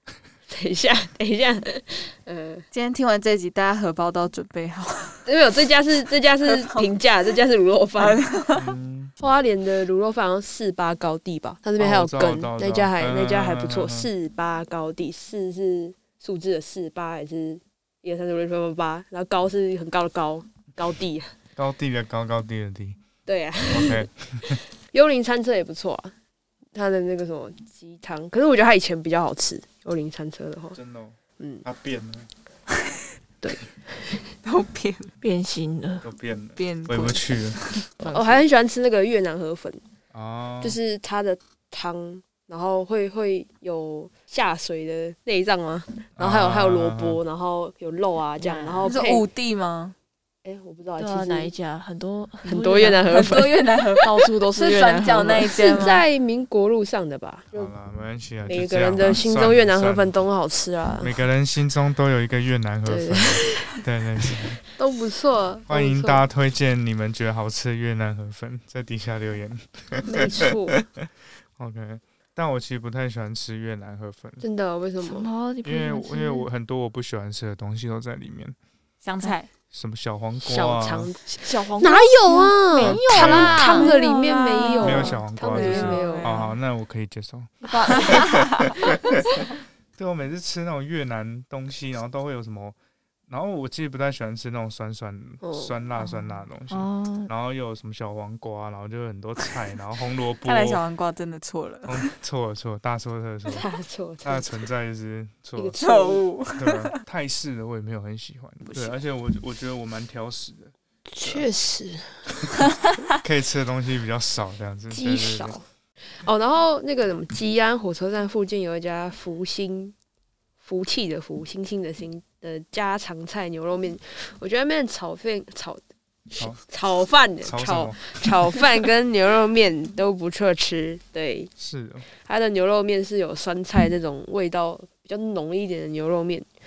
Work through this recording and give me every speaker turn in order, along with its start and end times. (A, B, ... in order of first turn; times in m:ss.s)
0:00.5-0:02.6 A
0:02.7-0:05.2 B
0:05.3-0:08.2 A
0:06.4-0:06.9 B
0:08.0-0:08.8 B
0:08.5-0:09.1 C
0:09.2-0:21.3 A
0:11.8-0:14.1 C
0:21.6-0:23.0 C
0:23.3-0:26.1 A
0:23.7-0:24.6 C
0:26.7-0:30.8 A
0:30.7-0:32.3 C
0:31.4-0:31.6 A
0:33.4-0:34.3 A
0:34.4-0:35.1 B
0:35.2-0:36.1 D
0:36.0-0:37.6 C
0:36.6-0:37.9 B
0:38.0-0:38.4 D
0:38.1-0:39.8 A
0:40.1-0:40.8 C
0:40.6-0:49.3 A
0:46.2-0:47.2 C
0:48.4-0:48.9 D
0:48.8-0:50.0 B
0:50.4-0:51.5 A
0:51.0-0:53.4 D
0:52.4-0:53.5 A
0:53.1-0:56.0 B
0:54.0-0:55.5 D
0:55.3-0:57.7 A
0:57.5-1:00.1 C
0:58.4-1:01.1 A
1:01.0-1:04.6 C
1:02.9-1:03.7 A
1:04.8-1:06.2 A
1:05.7-1:14.4 C
1:10.0-1:10.8 A
1:14.4-1:15.3 A
1:15.0-1:16.5 D
1:15.6-1:18.6 C
1:19.0-1:19.5 B
1:19.7-1:21.1 C
1:20.4-1:26.4 A
1:21.4-1:25.0 D
1:22.8-1:23.7 C
1:23.2-1:26.6 B
1:24.8-1:32.8 C
1:27.7-1:28.7 B
1:33.3-1:40.8 C
1:35.4-1:35.7 A
1:36.7-1:37.3 D
1:40.4-1:42.1 B
1:41.9-1:43.6 C
1:43.5-1:44.5 A
1:44.2-1:45.8 C
1:45.6-1:46.2 A
1:45.8-1:47.0 B
1:46.6-1:51.5 C
1:48.6-1:49.0 B
1:51.1-1:52.1 A
1:53.2-1:55.6 C
1:54.9-1:55.6 A
1:56.2-2:00.0 A
2:00.6-2:11.5 A
2:07.4-2:08.6 C
2:11.6-2:12.0 C
2:12.2-2:16.5 A